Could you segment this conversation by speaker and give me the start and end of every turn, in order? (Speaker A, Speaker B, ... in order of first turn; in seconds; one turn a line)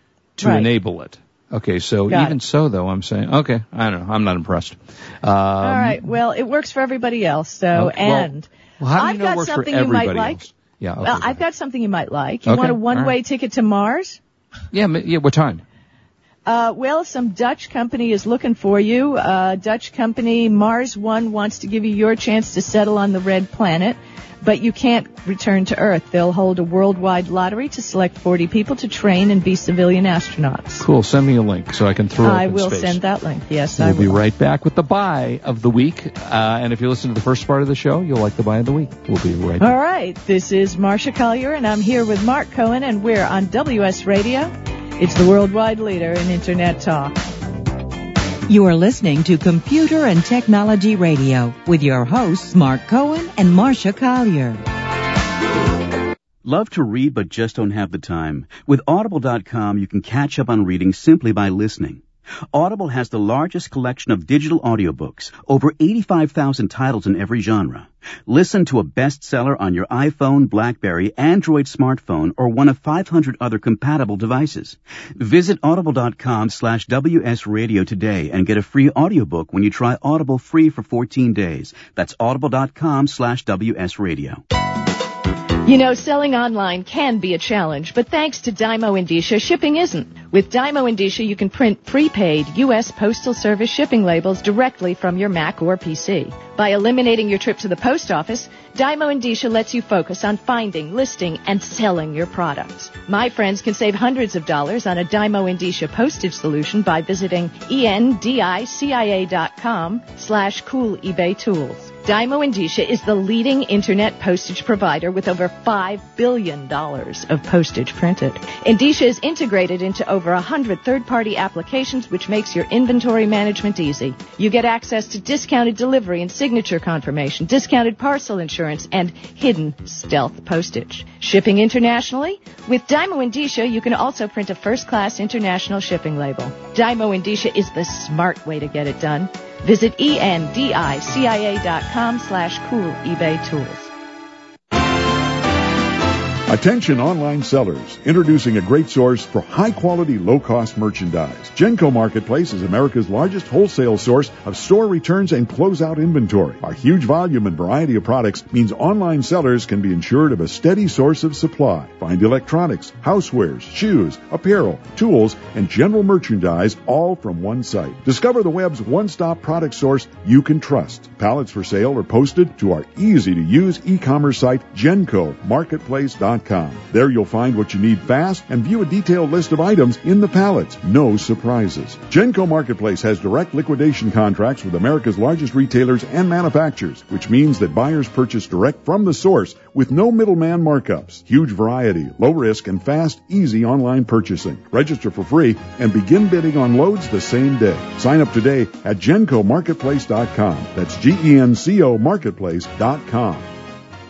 Speaker A: 0.4-6.1
Speaker B: 0.4-0.7
Speaker B: 2.1-2.4
Speaker B: 5.6-10.4
Speaker A: 7.7-11.4
Speaker B: 11.0-14.2
Speaker A: 12.4-13.1
Speaker A: 14.7-15.6
Speaker B: 16.4-30.8
Speaker A: 30.8-33.0
Speaker B: 32.2-34.2
Speaker A: 33.8-39.7
Speaker B: 39.6-47.2
Speaker C: 48.5-54.6
Speaker D: 56.4-84.4
Speaker B: 85.6-143.9
Speaker E: 146.5-203.5